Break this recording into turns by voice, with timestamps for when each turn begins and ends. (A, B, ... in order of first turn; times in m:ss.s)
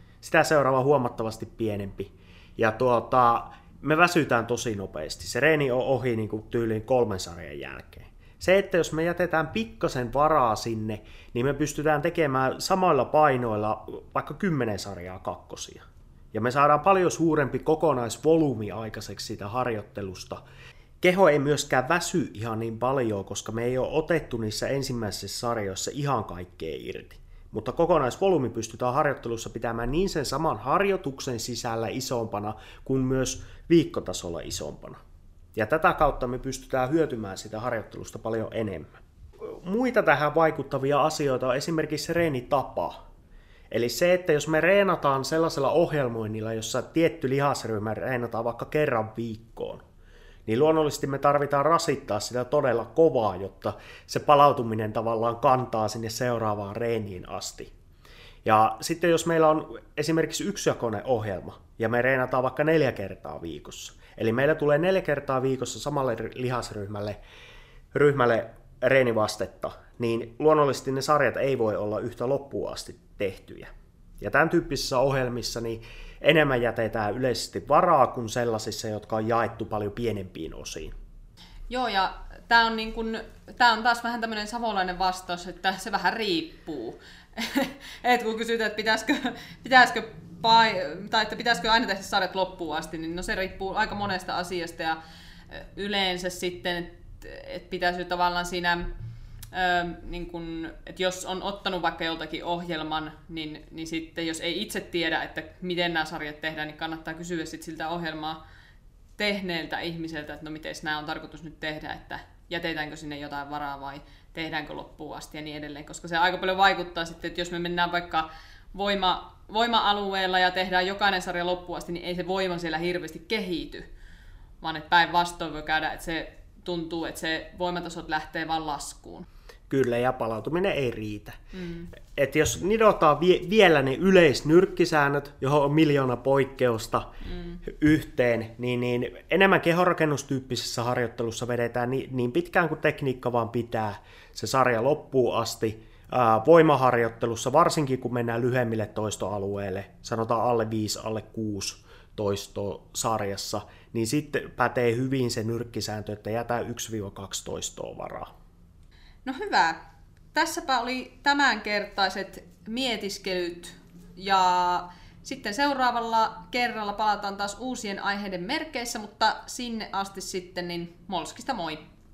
0:00.2-0:20.4 A
0:21.0-0:35.0 A
0:35.5-0:43.0 A
0:43.7-0:49.8 A
0:50.4-0:57.7 A
0:58.4-1:07.2 A
1:07.9-1:20.9 A
1:21.7-1:35.0 B
1:35.5-1:38.9 B
1:39.5-1:48.4 B
1:49.2-2:03.9 B
2:04.6-2:09.2 B
2:09.7-2:11.4 A
2:11.5-2:11.9 B
2:12.1-2:17.1 A
2:17.3-2:17.6 B
2:17.7-2:38.3 A
2:39.2-2:39.8 B
2:40.3-2:51.8 B